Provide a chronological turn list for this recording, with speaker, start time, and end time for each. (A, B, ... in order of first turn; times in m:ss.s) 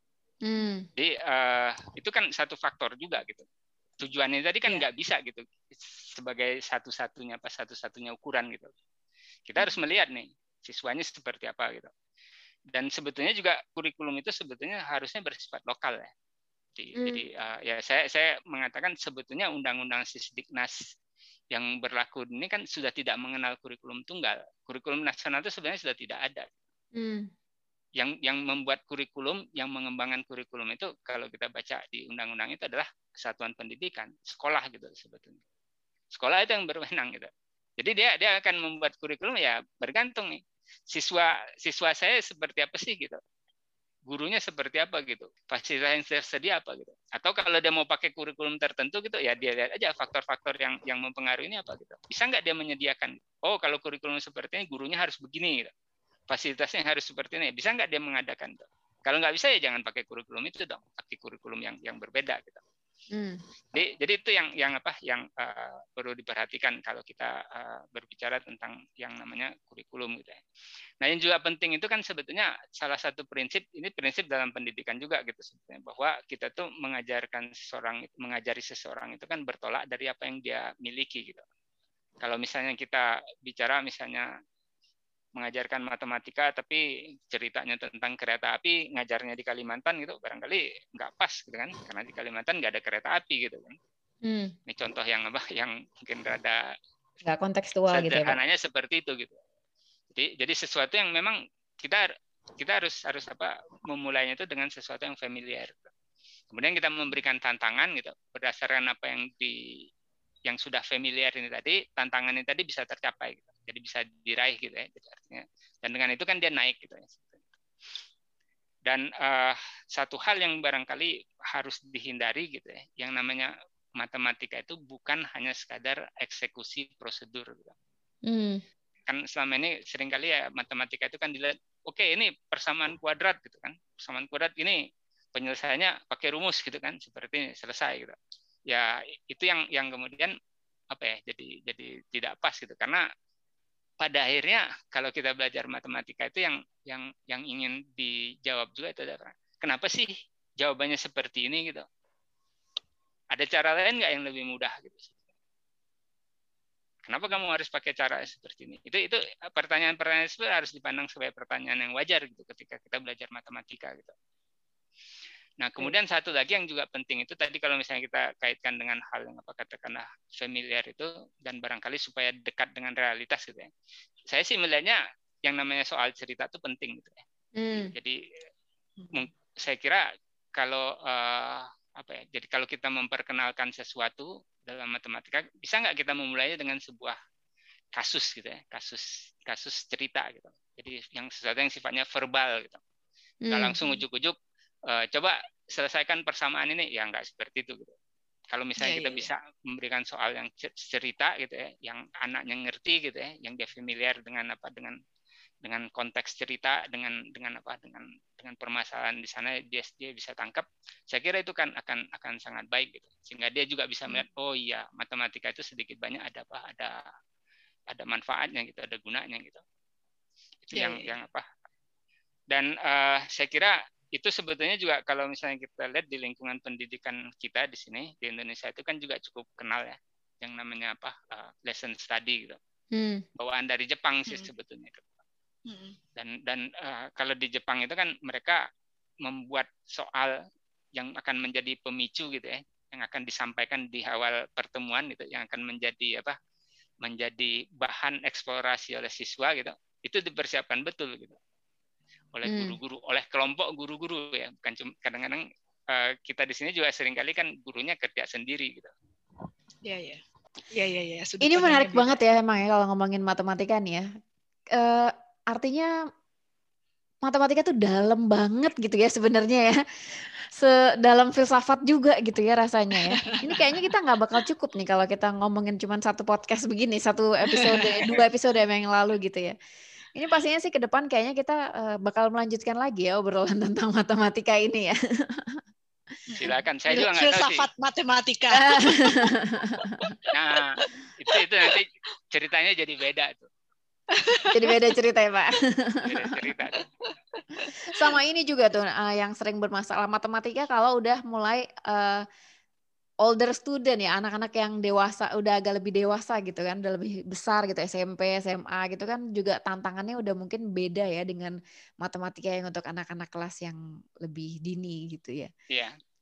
0:00.4-0:00.9 A
0:01.0-0:03.4 B
0:04.0-0:08.7 B
0:09.5-0:11.9 B
0:12.7-0:16.1 B
0:16.8-0:20.8 B
0:21.5-0:26.5 B
0:26.9-0:27.3 A
0:28.0-0:35.4 B
0:36.1-0:43.2 B
0:44.1-0:55.7 B
0:56.3-1:02.6 B
1:03.1-1:03.4 A
1:03.7-1:10.4 B
1:11.0-1:21.4 B
1:22.2-1:24.3 B
1:25.4-1:33.8 B
1:34.2-1:34.5 A
1:34.7-1:36.6 B
1:37.2-1:38.4 A
1:37.9-1:39.4 B
1:40.1-1:42.1 B
1:42.6-1:45.9 B
1:46.5-1:49.5 B
1:50.5-1:57.4 B
1:58.8-2:07.7 B
2:08.3-2:08.6 A
2:09.1-2:14.8 B
2:15.3-2:18.2 B
2:18.7-2:20.3 B
2:20.9-2:23.0 B
2:24.0-2:31.8 B
2:33.3-2:35.2 B
2:37.1-2:44.1 B
2:45.6-2:53.7 B
2:54.3-2:57.2 B
2:57.6-2:57.9 A
2:57.7-2:58.2 B
2:59.0-2:59.3 C
2:59.1-3:00.0 B
3:00.6-3:07.1 B
3:07.9-3:12.8 B
3:13.4-3:13.8 A
3:13.5-3:14.4 B
3:14.9-3:17.9 B
3:18.5-3:25.0 B
3:18.8-3:19.3 C
3:25.6-3:37.0 B
3:37.9-3:39.6 B
3:40.6-3:41.4 B
3:40.7-3:41.1 C
3:42.5-3:52.6 B
3:52.9-3:53.2 A
3:53.4-3:55.1 B
3:55.7-3:56.0 C
3:56.2-3:58.6 B
3:59.2-4:00.3 B
4:01.0-4:06.3 B
4:07.0-4:11.4 B
4:12.3-4:18.9 B
4:12.4-4:12.8 A
4:19.8-4:22.2 C
4:21.4-4:24.0 A
4:24.7-4:25.9 A
4:27.2-4:39.5 A
4:33.1-4:33.9 C
4:37.5-4:38.2 C
4:40.1-4:45.6 A
4:46.3-4:50.3 C
4:46.4-4:47.6 B
4:48.6-4:50.1 A
4:50.3-4:53.5 B
4:51.3-4:51.7 C
4:54.1-4:54.8 C
4:54.5-4:56.3 A
4:56.0-4:56.9 B
4:57.4-4:58.2 C
4:57.9-5:02.2 A
5:03.2-5:15.5 A
5:15.7-5:16.0 B